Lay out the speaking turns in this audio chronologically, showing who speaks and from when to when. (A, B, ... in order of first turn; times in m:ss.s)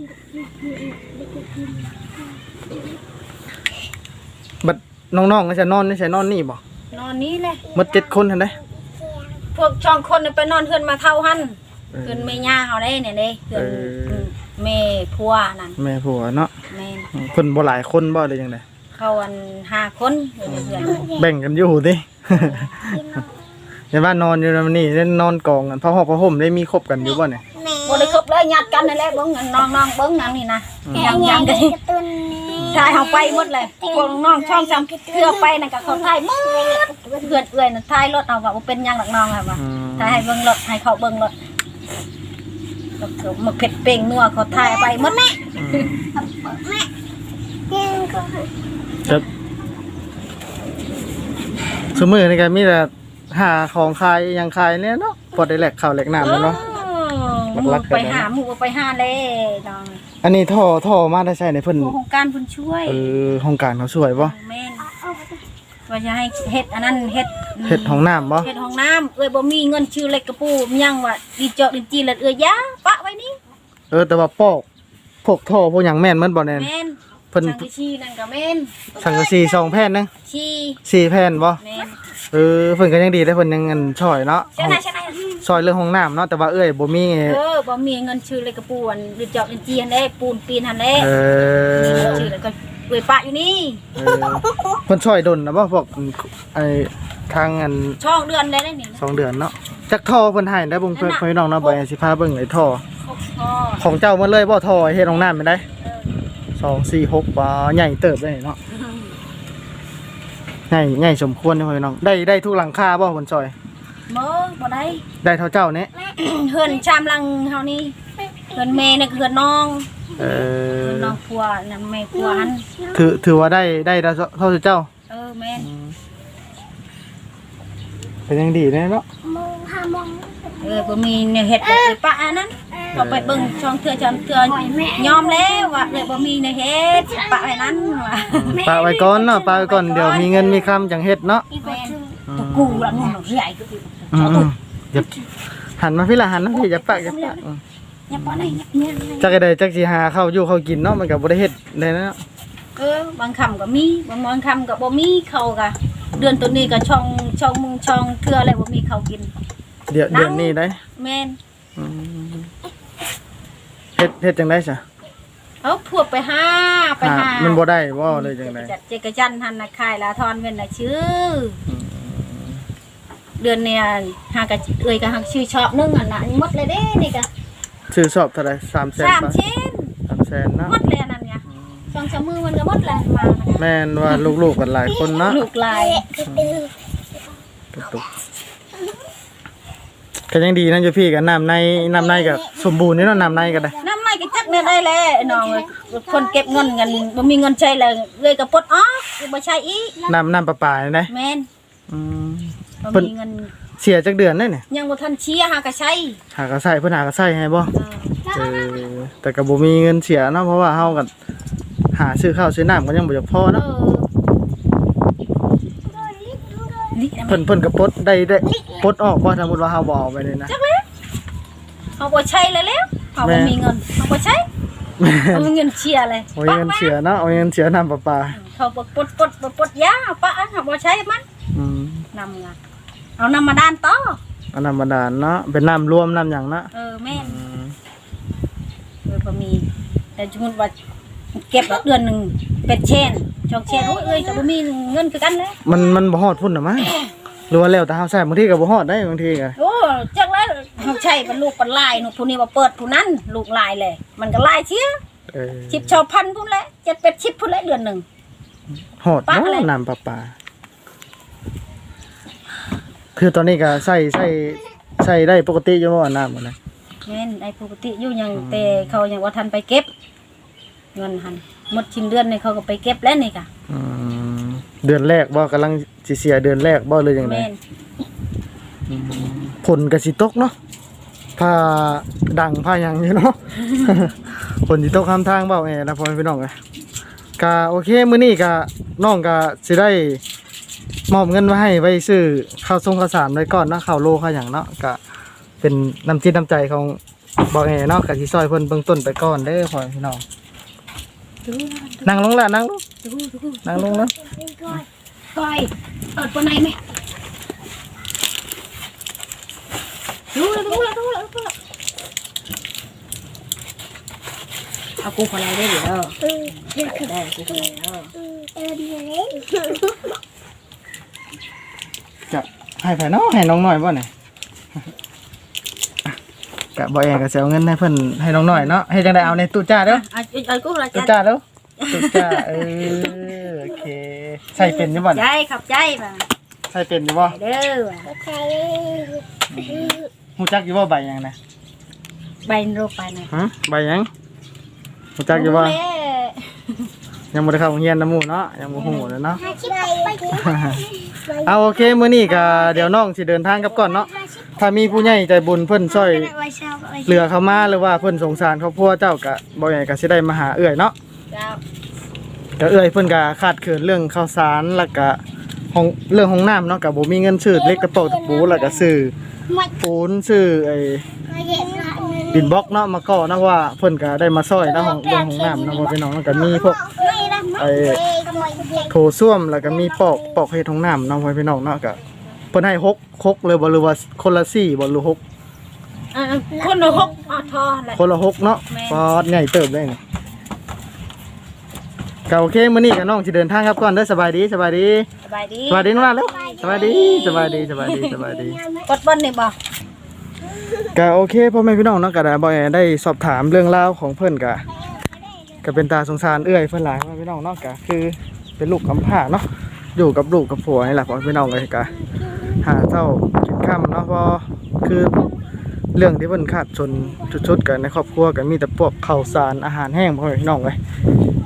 0:04.6-0:06.6 A
0:06.9-0:07.6 B
0:07.7-0:08.6 A
0:09.5-0:15.8 B
0:11.9-0:12.5 A
0:13.5-0:14.3 A
0:15.8-0:16.5 A
0:16.7-0:17.1 B
0:17.1-0:18.6 A
0:19.0-0:21.1 B
0:20.5-0:23.2 A
0:23.9-0:27.4 A
0:27.6-0:28.2 C
0:27.8-0:31.8 B
0:30.8-0:31.4 A
0:30.9-0:37.3 C
0:32.6-0:32.9 A
0:32.6-0:41.3 B
0:39.6-0:40.2 A
0:43.0-0:45.9 B
0:44.5-0:45.4 C
0:45.5-0:46.1 A
0:46.2-0:46.9 C
0:47.7-0:48.5 C
0:51.9-0:56.6 A
0:56.2-1:00.0 B
0:57.5-0:58.3 A
1:00.2-1:01.9 A
1:01.8-1:03.1 B
1:02.8-1:04.3 A
1:04.2-1:04.9 B
1:05.9-1:13.4 B
1:07.6-1:08.5 A
1:13.9-1:14.6 A
1:15.2-1:16.7 A
1:16.5-1:19.0 B
1:17.3-1:17.7 A
1:19.0-1:20.1 A
1:20.3-1:20.8 B
1:20.8-1:21.6 A
1:21.6-1:22.0 B
1:22.3-1:24.8 A
1:24.6-1:25.3 B
1:25.4-1:27.4 A
1:27.3-1:31.1 B
1:31.0-1:32.3 A
1:31.8-1:33.8 B
1:34.0-1:38.0 A
1:38.0-1:39.0 B
1:39.0-1:42.8 A
1:40.9-1:41.8 B
1:43.0-1:43.8 B
1:43.8-1:45.6 A
1:46.6-1:48.6 A
1:48.8-1:49.1 B
1:50.7-1:53.5 A
1:54.1-1:55.0 B
1:55.2-1:55.9 A
1:56.1-1:57.9 B
1:58.5-1:59.9 B
2:00.2-2:01.2 A
2:00.8-2:02.6 B
2:02.9-2:04.9 A
2:05.1-2:05.7 B
2:05.6-2:05.9 A
2:08.3-2:09.0 A
2:09.3-2:11.0 C
2:10.6-2:18.7 B
2:11.7-2:12.0 C
2:12.9-2:13.5 A
2:14.4-2:20.7 C
2:18.3-2:21.5 A
2:21.5-2:22.9 C
2:21.6-2:24.5 B
2:22.3-2:23.1 A
2:24.1-2:25.1 A
2:25.8-2:27.6 A
2:27.1-2:27.4 B
2:28.1-2:28.6 B
2:28.1-2:28.6 A
2:28.3-2:29.3 C
2:29.2-2:32.2 A
2:32.8-2:39.3 B
2:36.1-2:36.8 A
2:39.9-2:40.8 A
2:40.1-2:41.4 B
2:41.8-2:42.5 A
2:44.0-2:44.8 A
2:45.6-2:51.6 B
2:47.0-2:48.7 A
2:51.7-2:52.6 A
2:53.4-2:57.3 B
2:57.9-2:59.4 A
2:59.0-2:59.9 B
3:00.1-3:00.8 A
3:00.6-3:04.3 B
3:01.5-3:02.0 A
3:03.6-3:05.4 A
3:05.1-3:06.7 C
3:05.2-3:06.2 B
3:06.2-3:06.6 A
3:07.7-3:08.1 A
3:10.3-3:13.8 A
3:13.8-3:20.0 B
3:13.8-3:17.0 C
3:20.0-3:21.1 A
3:21.1-3:21.5 B
3:21.9-3:23.1 A
3:22.8-3:23.5 B
3:23.8-3:24.6 A
3:24.7-3:26.2 B
3:26.3-3:27.7 A
3:27.8-3:28.2 B
3:28.3-3:31.1 A
3:31.9-3:33.6 A
3:33.6-3:34.1 B
3:35.9-3:36.9 C
3:36.9-3:37.4 B
3:37.3-3:40.5 A
3:40.5-3:40.8 B
3:42.0-3:44.5 B
3:43.2-3:43.6 A
3:45.0-3:45.5 A
3:45.3-3:46.9 B
3:46.3-3:48.4 A
3:48.4-3:51.2 B
3:51.5-3:52.1 A
3:52.1-3:52.6 B
3:53.2-3:54.2 B
3:54.5-3:57.7 A
3:56.7-3:57.4 B
3:59.0-3:59.6 B
4:00.2-4:00.7 B
4:01.4-4:05.6 B
4:03.7-4:04.3 C
4:05.6-4:07.0 A
4:07.5-4:09.6 A
4:09.6-4:15.0 B
4:11.0-4:11.3 C
4:15.3-4:16.0 A
4:15.7-4:18.0 B
4:19.0-4:20.3 A
4:19.3-4:19.7 B
4:23.1-4:26.6 A
4:27.0-4:29.9 B
4:28.3-4:29.0 A
4:30.9-4:33.5 B
4:33.7-4:37.5 A
4:37.2-4:37.6 B
4:38.9-4:40.5 A
4:41.4-4:46.5 A
4:47.4-4:50.2 A
4:51.1-4:55.0 A
4:55.6-4:57.0 A
4:57.5-5:00.2 A
5:01.4-5:02.1 B
5:02.0-5:02.8 A
5:03.0-5:04.0 B
5:03.6-5:04.1 A
5:04.0-5:04.8 C
5:05.3-5:06.8 B
5:10.3-5:11.5 B
5:15.0-5:18.1 B
5:16.7-5:17.7 C
5:18.6-5:19.7 C
5:22.3-5:24.1 A
5:26.8-5:30.0 A
5:29.9-5:31.2 B
5:30.9-5:35.2 A
5:31.8-5:33.4 B
5:34.6-5:36.2 B
5:36.7-5:37.4 A
5:37.3-5:38.1 B
5:38.1-5:39.9 C
5:39.5-5:41.4 A
5:42.4-5:43.3 B
5:43.3-5:44.1 A
5:45.2-5:45.8 A
5:45.3-5:46.9 B
5:47.3-5:49.4 A
5:48.8-5:49.2 B
5:49.3-5:51.3 C
5:50.3-5:56.3 A
5:52.4-5:52.7 C
5:53.9-5:54.5 C
5:56.3-5:57.1 C
5:57.0-6:00.9 A
6:01.3-6:01.6 B
6:02.6-6:05.2 A
6:05.7-6:09.1 A
6:08.0-6:08.8 C
6:09.8-6:11.0 A
6:11.3-6:12.5 C
6:12.3-6:16.9 A
6:14.8-6:15.9 C
6:16.8-6:18.9 C
6:17.6-6:18.0 A
6:18.9-6:22.0 A
6:22.5-6:25.2 A
6:26.1-6:28.0 B
6:26.6-6:27.5 C
6:27.9-6:30.0 A
6:28.7-6:29.1 B
6:32.3-6:35.1 A
6:35.2-6:36.0 B
6:35.7-6:38.6 A
6:36.6-6:37.5 C
6:36.7-6:38.2 B
6:38.8-6:39.6 B
6:40.8-6:44.6 A
6:45.6-6:51.9 A
6:52.5-6:55.3 A
6:55.9-7:00.8 A